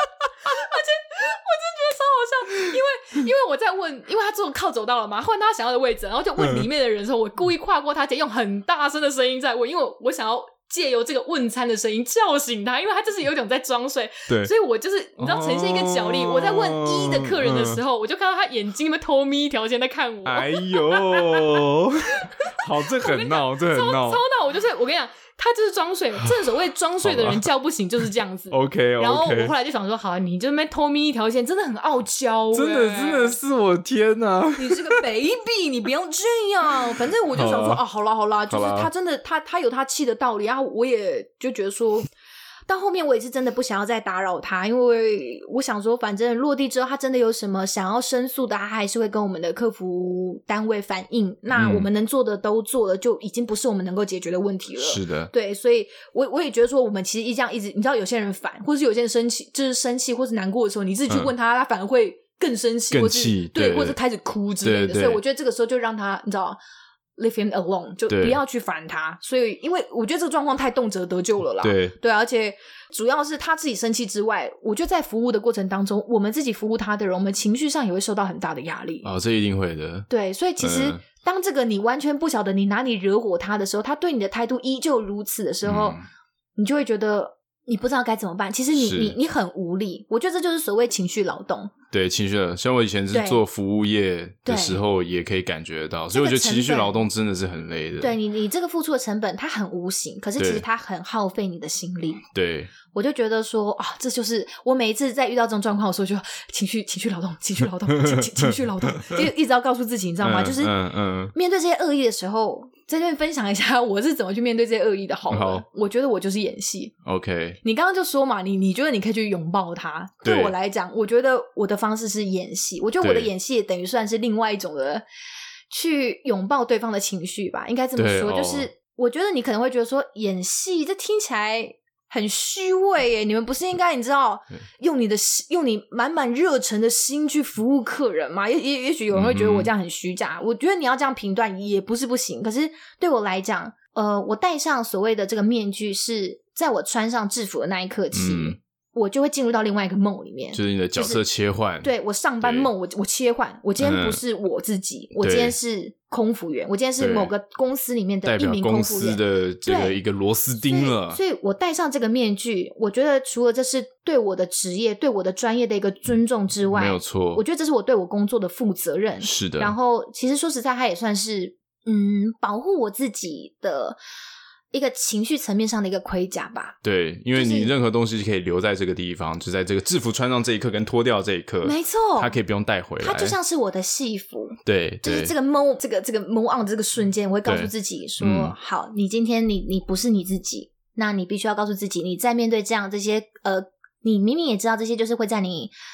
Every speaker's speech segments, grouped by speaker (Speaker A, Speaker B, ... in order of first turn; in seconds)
Speaker A: 0.4-33.4, 34.6-42.1, 42.7-66.6, 67.2-79.1, 80.1-86.0, 86.6-91.7, 93.1-93.4, 94.5-94.8, 96.1-97.0, 98.0-102.2, 102.9-110.8, 111.3-116.9, 117.6-125.0, 125.7-151.2, 151.8-160.0, 160.6-174.0, 174.7-176.8, 177.3-177.7, 181.6-182.4, 183.0-195.7
Speaker B: 6.4-6.7, 15.2-17.8, 20.2-24.2, 27.0-27.4, 28.5-29.5, 32.5-35.0, 37.3-37.8, 38.5-38.9, 51.5-51.9, 54.8-55.3, 62.9-64.0, 64.6-65.2, 68.1-68.4, 71.6-71.9, 79.0-81.0, 85.6-86.1, 88.7-89.2, 91.9-98.1, 100.4-100.6, 102.3-102.7, 107.9-109.3, 110.2-111.3, 115.3-115.6, 117.0-117.6, 120.2-120.5, 123.0-123.3, 128.0-128.7, 139.1-139.7, 148.1-148.6, 150.5-152.7, 153.8-154.2, 155.2-155.6, 157.0-157.3, 158.2-161.2, 166.7-167.4, 169.2-169.7, 176.8-183.4, 184.6-185.3, 187.4-188.5